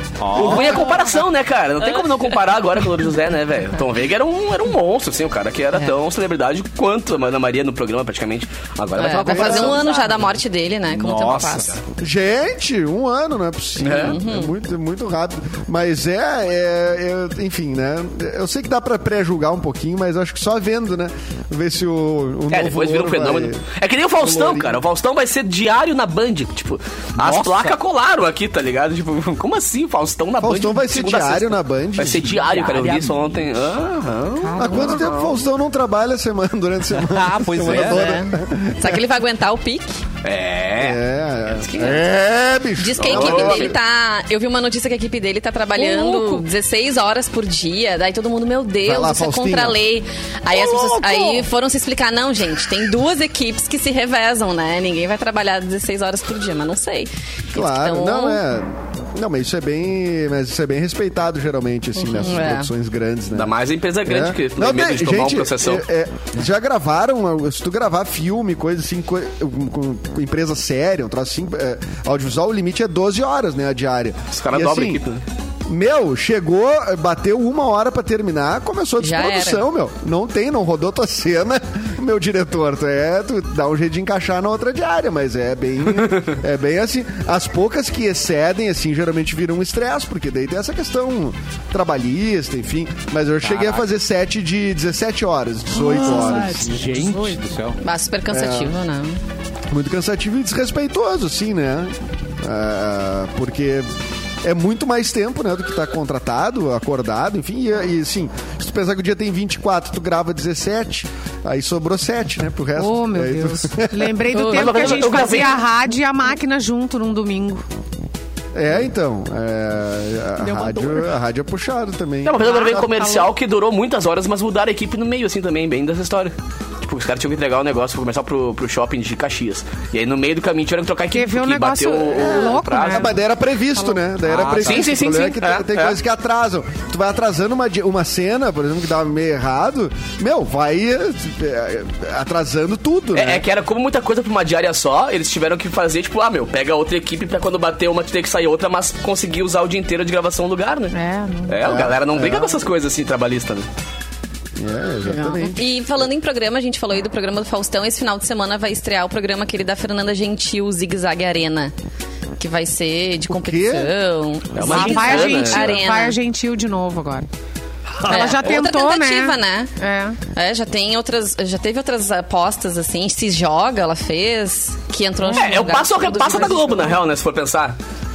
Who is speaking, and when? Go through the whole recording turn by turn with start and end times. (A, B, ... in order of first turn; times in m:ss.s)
0:00.2-0:00.8 A
0:00.3-0:10.2 B
0:00.4-0:00.7 C
0:09.0-0:11.7 C
0:09.2-0:09.9 D
0:10.9-0:11.6 A
0:11.2-0:11.8 B
0:12.0-0:23.6 D
0:13.8-0:14.2 B
0:14.0-0:14.5 C
0:22.5-0:35.4 B
0:24.2-0:24.8 D
0:27.2-0:27.8 A
0:30.4-0:32.4 D
0:32.5-0:32.9 C
0:32.8-0:33.1 A
0:34.4-0:35.0 E
0:34.6-0:39.0 D
0:37.0-0:38.0 A
0:37.7-0:40.0 C
0:40.2-0:41.0 B
0:40.8-0:43.7 D
0:41.6-0:42.0 C
0:42.8-0:58.4 C
0:43.0-0:43.7 B
0:45.8-0:46.3 E
0:48.8-0:49.8 D
0:57.5-1:15.0 D
1:02.0-1:02.7 C
1:03.3-1:05.8 B
1:14.3-1:15.2 B
1:15.7-1:37.0 D
1:19.0-1:19.6 C
1:33.4-1:33.8 A
1:35.8-1:37.4 E
1:35.8-1:37.8 A
1:37.8-1:39.2 C
1:38.3-1:38.7 D
1:39.7-1:43.9 D
1:44.4-1:54.2 D
1:52.8-1:57.6 E
1:54.3-1:55.0 C
1:54.3-1:55.6 B
1:58.5-2:03.0 D
2:00.4-2:01.1 E
2:02.2-2:13.1 B
2:02.4-2:03.3 E
2:11.1-2:13.2 E
2:12.0-2:23.4 D
2:14.2-2:15.0 A
2:14.6-2:16.0 B
2:23.1-2:30.9 B
2:30.9-2:31.6 E
2:31.5-2:33.7 B
2:31.6-2:32.6 D
2:34.6-2:35.6 D
2:35.1-2:41.7 C
2:42.4-2:46.2 C
2:43.3-2:43.9 D
2:44.5-2:45.8 B
2:44.6-2:47.3 E
2:48.0-2:50.2 E
2:48.0-2:56.8 C
2:55.3-2:57.8 B